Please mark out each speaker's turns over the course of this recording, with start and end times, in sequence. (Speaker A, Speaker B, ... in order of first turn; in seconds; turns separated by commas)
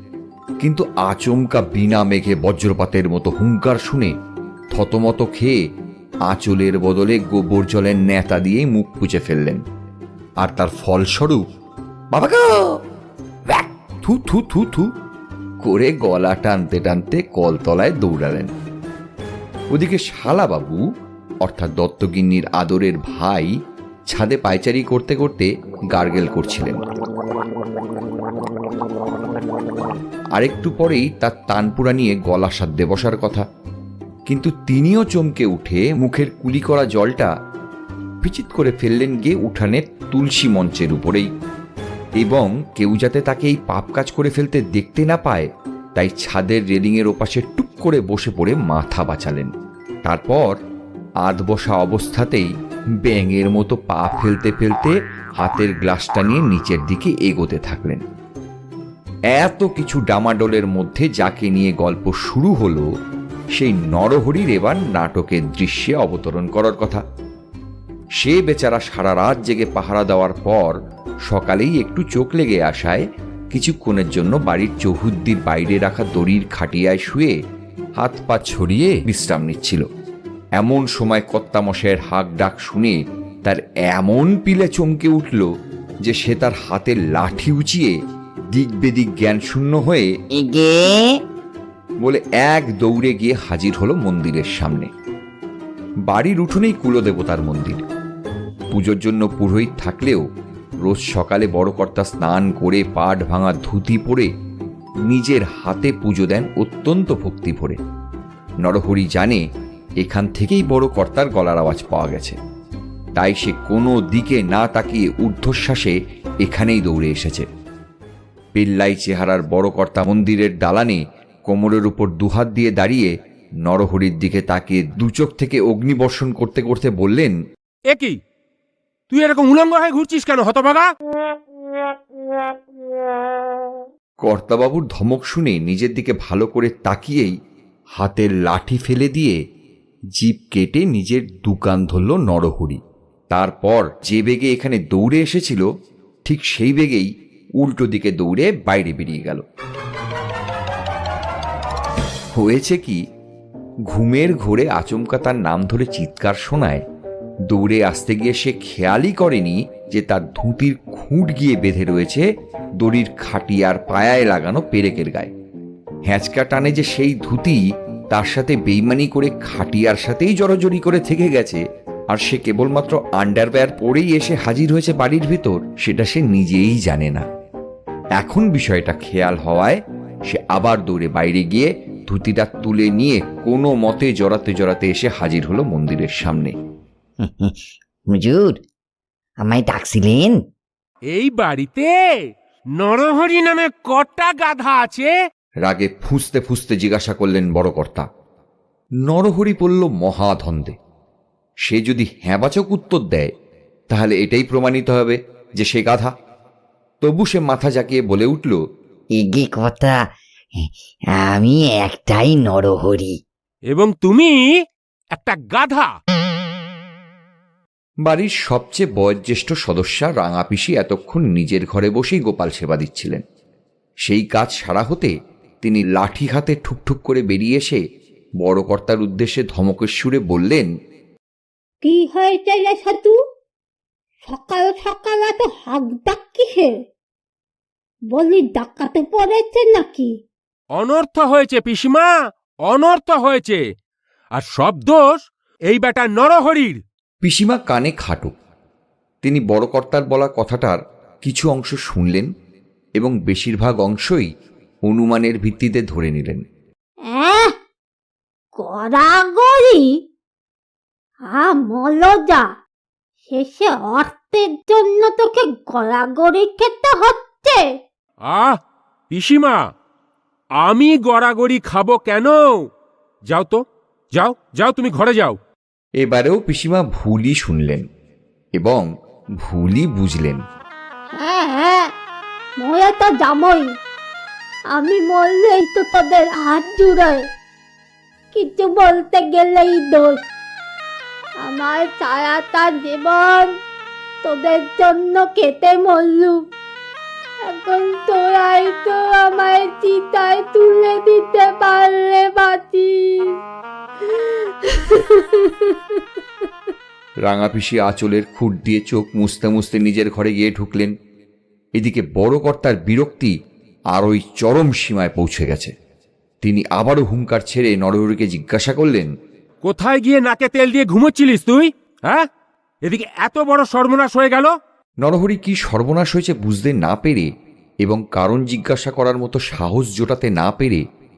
Speaker A: 0.6-4.1, Speaker A: 4.7-5.6, Speaker A: 6.2-9.6, Speaker A: 10.4-11.5, Speaker A: 12.1-12.8, Speaker A: 13.5-14.9, Speaker A: 15.6-18.5, Speaker A: 19.7-20.8, Speaker A: 21.4-23.5, Speaker A: 24.1-26.8, Speaker A: 30.4-33.5, Speaker A: 34.3-37.3, Speaker A: 38.2-41.3, Speaker A: 42.1-49.5, Speaker A: 50.0-50.5, Speaker A: 51.2-52.5, Speaker A: 53.0-58.0, Speaker A: 59.3-62.9, Speaker A: 63.5-67.0, Speaker A: 68.2-77.4, Speaker A: 78.0-79.9, Speaker A: 80.6-85.5, Speaker A: 86.0-87.9, Speaker A: 88.5-90.1, Speaker B: 90.3-91.2, Speaker A: 92.0-94.9, Speaker A: 96.0-97.8, Speaker A: 98.7-100.2, Speaker A: 100.8-104.3, Speaker A: 105.0-107.8, Speaker A: 108.6-109.4, Speaker A: 110.0-112.4, Speaker A: 113.2-117.5, Speaker A: 118.5-123.1, Speaker A: 123.6-127.3, Speaker C: 127.9-128.2, Speaker C: 129.1-130.9, Speaker A: 134.2-137.3, Speaker A: 137.9-139.4, Speaker A: 140.1-145.7, Speaker A: 146.2-149.4, Speaker A: 152.3-153.0, Speaker A: 153.9-156.8, Speaker A: 157.5-162.3, Speaker A: 162.8-165.3, Speaker A: 166.1-177.3, Speaker A: 178.2-186.5, Speaker B: 187.2-188.6, Speaker B: 189.4-190.4, Speaker C: 191.1-192.2, Speaker C: 192.7-195.1, Speaker A: 195.6-198.1, Speaker A: 199.0-200.8, Speaker A: 201.7-203.3, Speaker A: 203.9-206.1, Speaker A: 207.0-208.6, Speaker B: 209.1-210.0, Speaker B: 210.6-213.2, Speaker C: 213.7-214.5, Speaker C: 215.1-215.9, Speaker A: 218.0-223.2, Speaker A: 224.1-227.8, Speaker A: 228.4-230.7, Speaker D: 231.8-233.2, Speaker D: 234.2-236.8, Speaker D: 238.1-240.1, Speaker C: 240.7-242.1, Speaker C: 242.7-243.6, Speaker C: 244.3-246.8, Speaker A: 247.2-248.3, Speaker A: 249.2-252.3, Speaker A: 253.0-254.3, Speaker A: 254.8-256.4, Speaker D: 257.1-257.6, Speaker D: 258.6-259.9, Speaker D: 261.3-262.5, Speaker D: 263.3-267.7, Speaker C: 268.2-268.6, Speaker C: 269.1-269.7, Speaker C: 270.6-272.7, Speaker C: 273.3-275.4, Speaker A: 276.0-277.8, Speaker A: 278.6-278.9, Speaker A: 279.4-280.4, Speaker D: 281.2-281.9, Speaker D: 282.6-283.7, Speaker D: 284.7-287.2, Speaker D: 288.3-290.2, Speaker D: 291.4-293.6, Speaker D: 294.2-296.4, Speaker D: 297.4-303.4, Speaker A: 307.2-310.9, Speaker A: 311.8-313.3, Speaker A: 313.9-315.7, Speaker A: 316.4-319.1, Speaker C: 319.6-322.3, Speaker C: 322.8-324.5, Speaker A: 325.0-327.3, Speaker A: 327.8-330.8